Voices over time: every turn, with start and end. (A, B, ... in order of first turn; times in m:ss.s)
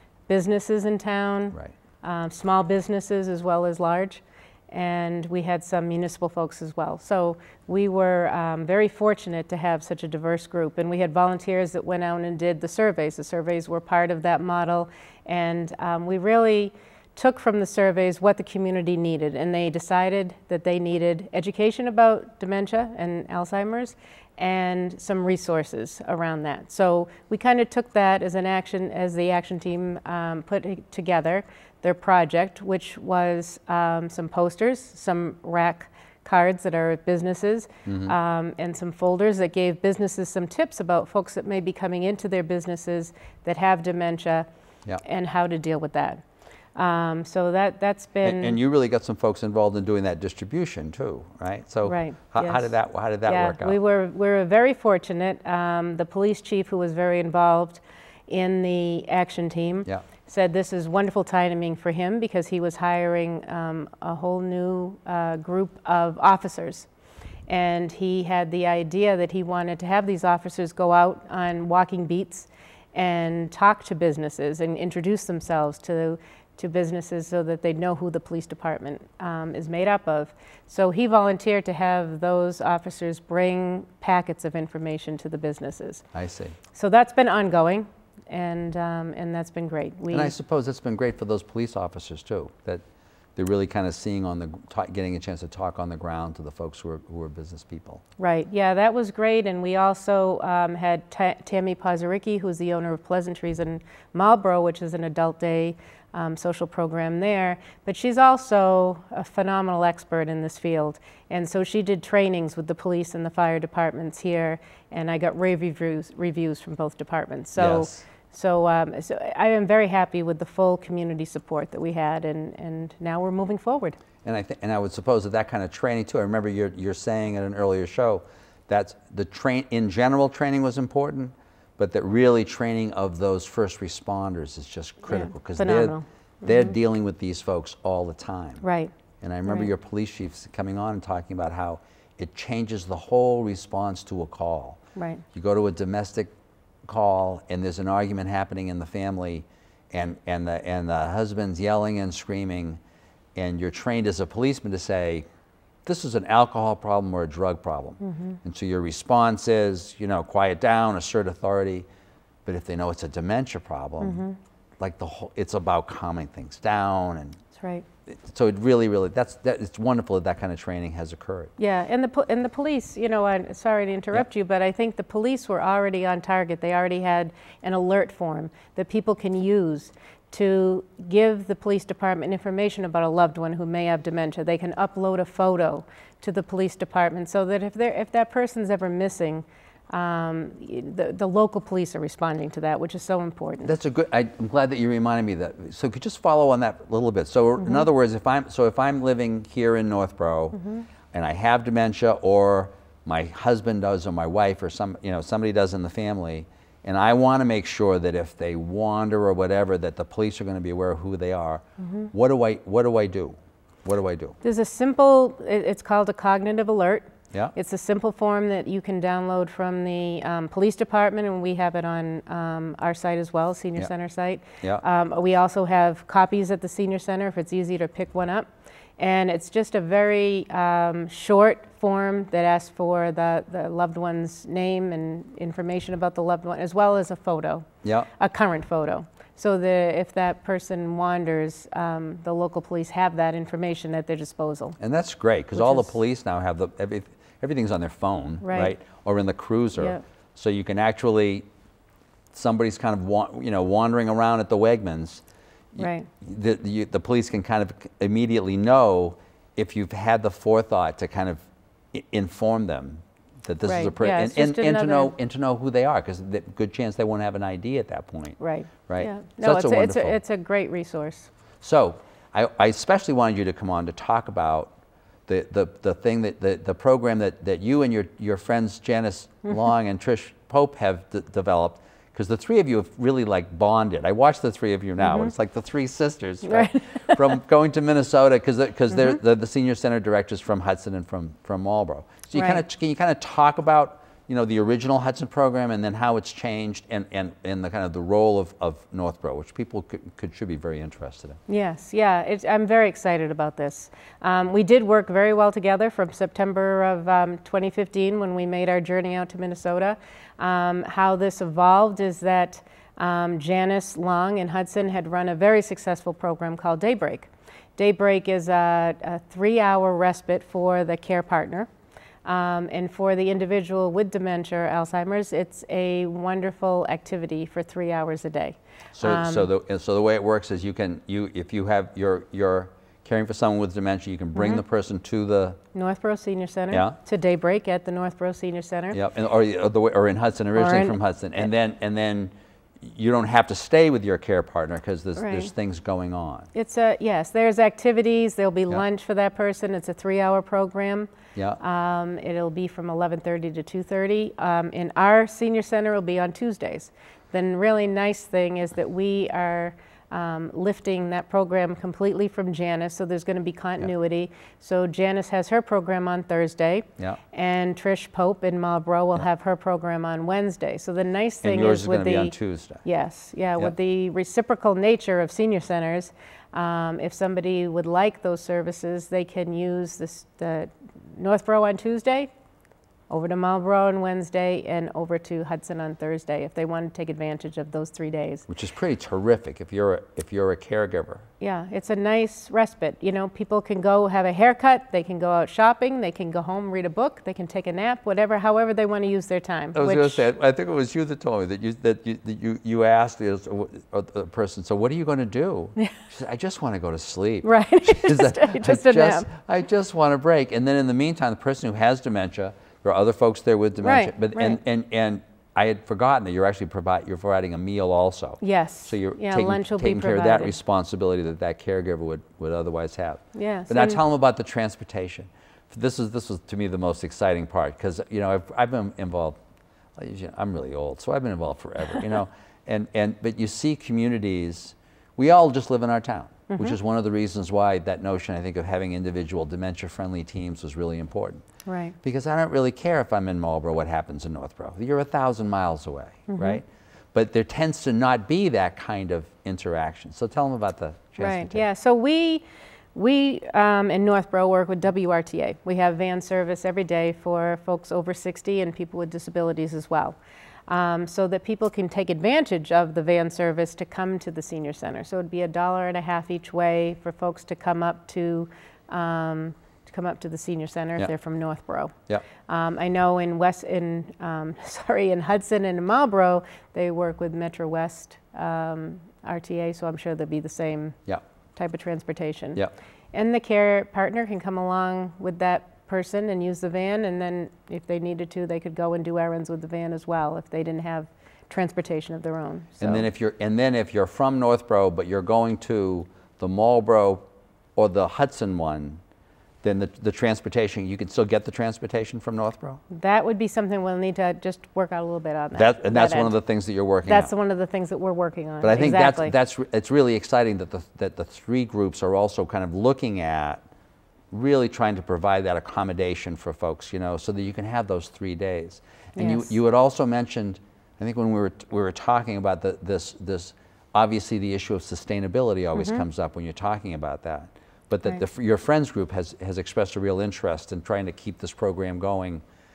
0:00.3-0:44.4 A
0:37.8-0:38.1 B
0:45.0-0:46.2 A
0:46.8-0:48.6 A
0:48.2-0:53.8 B
0:51.8-0:52.7 A
0:53.2-1:06.9 A
1:07.5-1:26.0 A
1:26.1-1:26.6 B
1:26.7-1:30.3 A
1:30.1-1:32.8 B
1:33.4-1:38.0 B
1:38.2-2:04.0 A
1:57.6-1:58.0 B
2:04.2-2:18.6 B
2:15.1-2:16.7 A
2:18.6-2:18.9 A
2:19.2-2:24.8 B
2:24.9-2:25.2 A
2:25.3-2:26.3 B
2:26.8-2:32.8 B
2:33.4-2:35.2 B
2:35.8-2:41.8 B
2:38.0-2:38.4 A
2:42.4-2:44.2 B
2:44.0-2:44.4 A
2:44.8-2:47.4 B
2:47.6-2:47.8 A
2:48.1-2:51.5 B
2:51.6-3:13.7 A
3:13.6-3:20.6 B
3:17.6-3:17.9 A
3:20.5-3:20.8 A
3:21.1-3:34.4 B
3:31.8-3:32.1 A
3:34.4-4:04.8 A
3:57.8-3:58.1 B
4:04.8-4:11.4 B
4:05.6-4:05.9 A
4:08.4-4:08.7 A
4:09.8-4:10.0 A
4:12.3-4:15.2 B
4:15.7-4:30.2 B
4:15.8-4:16.1 A
4:23.6-4:25.1 A
4:28.4-4:31.3 A
4:31.6-4:34.7 B
4:35.3-5:01.4 B
4:45.0-4:45.3 A
4:46.4-4:47.4 A
4:48.9-4:49.2 A
4:52.3-4:52.6 A
5:01.5-5:21.7 A
5:22.2-5:29.5 A
5:28.9-5:35.6 B
5:34.3-5:34.6 A
5:35.7-5:39.0 A
5:36.7-5:37.0 B
5:38.9-5:46.5 B
5:40.5-5:41.0 A
5:45.2-5:45.5 A
5:46.5-6:22.3 A
5:51.3-5:51.6 B
6:11.4-6:12.8 B
6:23.1-6:28.5 A
6:28.5-6:31.2 B
6:31.4-6:40.2 A
6:39.7-7:09.4 B
6:47.4-6:49.3 A
6:53.8-6:54.6 A
6:58.4-7:00.5 A
7:03.3-7:04.0 A
7:10.0-7:21.4 B
7:16.5-7:16.8 A
7:21.6-7:22.0 A
7:22.0-7:31.6 B
7:26.3-7:26.6 A
7:31.2-7:40.2 A
7:40.7-7:51.9 A
7:52.4-8:01.0 A
8:01.6-8:02.6 A
8:03.1-8:13.1 A
8:12.8-8:17.2 B
8:17.8-8:19.0 B
8:19.6-8:22.8 B
8:22.9-8:26.3 A
8:25.5-8:27.3 B
8:27.0-8:29.3 A
8:28.6-8:33.6 B
8:34.3-8:52.4 B
8:39.2-8:39.6 A
8:45.7-8:46.0 A